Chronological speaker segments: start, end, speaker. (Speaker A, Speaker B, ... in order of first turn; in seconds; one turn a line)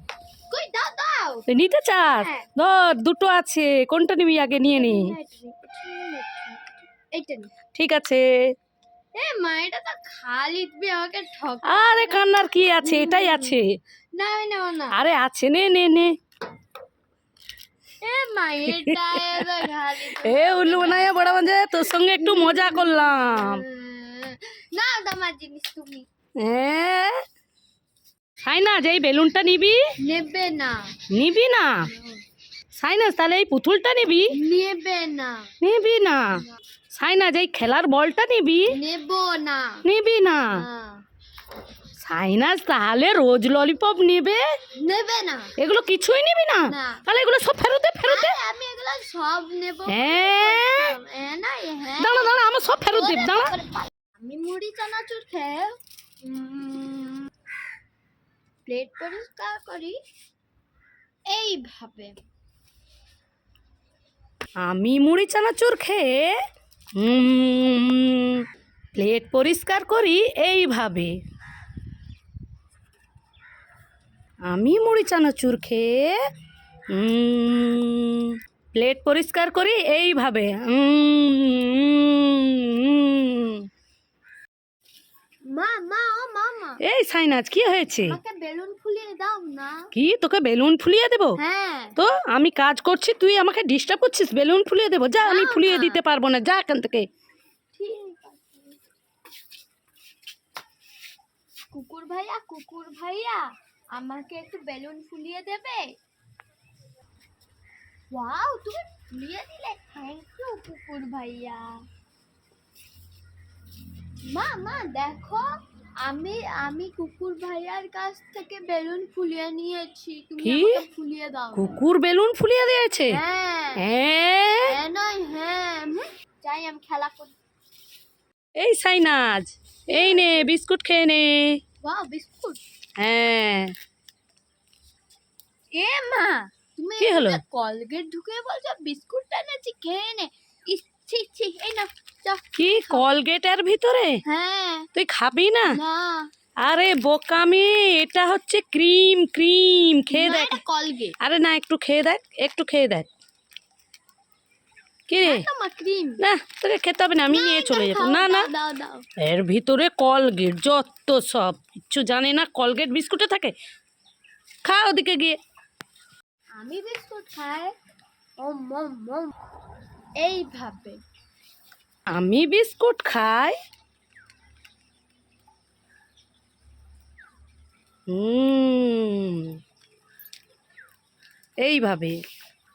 Speaker A: 0.5-1.5
Speaker B: 1.5-5.1
Speaker A: 2.0-2.5
Speaker A: 4.7-7.5
Speaker B: 7.7-8.3
Speaker A: 9.1-13.6
Speaker B: 11.6-13.7
Speaker A: 14.1-15.0
Speaker B: 14.9-16.1
Speaker A: 18.0-26.1
Speaker B: 18.7-23.6
Speaker B: 26.4-27.2
Speaker B: 28.4-29.8
Speaker A: 30.0-30.9
Speaker B: 31.1-31.9
Speaker A: 31.9-32.2
Speaker B: 32.8-34.3
Speaker A: 34.3-35.5
Speaker B: 35.6-38.8
Speaker A: 38.7-39.9
Speaker B: 39.9-40.6
Speaker A: 40.5-41.0
Speaker B: 42.0-44.4
Speaker A: 44.8-45.5
Speaker B: 45.6-48.4
Speaker A: 46.7-47.0
Speaker A: 48.0-57.3
Speaker B: 49.9-51.0
Speaker B: 52.0-53.5
Speaker A: 58.7-60.0
Speaker A: 61.3-62.2
Speaker B: 64.6-66.4
Speaker B: 67.0-68.5
Speaker B: 69.0-71.1
Speaker B: 74.5-76.2
Speaker B: 76.9-83.7
Speaker A: 85.5-86.8
Speaker B: 86.8-88.2
Speaker A: 88.1-89.8
Speaker B: 89.9-91.4
Speaker A: 91.4-92.0
Speaker B: 92.0-97.1
Speaker A: 95.2-96.0
Speaker A: 97.8-98.8
Speaker A: 101.7-105.9
Speaker A: 108.1-111.8
Speaker A: 114.3-115.5
Speaker A: 116.0-121.7
Speaker B: 120.4-120.8
Speaker B: 121.5-123.2
Speaker A: 123.1-123.9
Speaker B: 123.8-124.8
Speaker A: 124.7-127.3
Speaker B: 128.6-131.6
Speaker A: 129.9-130.5
Speaker A: 131.8-132.6
Speaker B: 133.0-133.7
Speaker A: 135.7-143.1
Speaker B: 137.0-137.4
Speaker B: 142.6-144.2
Speaker A: 144.2-144.9
Speaker B: 144.9-145.8
Speaker A: 145.7-146.3
Speaker B: 146.6-150.6
Speaker A: 150.1-151.2
Speaker B: 151.2-153.1
Speaker B: 155.1-155.4
Speaker A: 155.2-156.2
Speaker B: 156.2-158.5
Speaker A: 157.3-159.1
Speaker B: 159.2-163.6
Speaker B: 164.7-165.4
Speaker A: 166.6-167.7
Speaker A: 168.4-169.3
Speaker A: 170.2-171.0
Speaker B: 172.1-173.6
Speaker B: 178.1-179.6
Speaker B: 181.6-182.2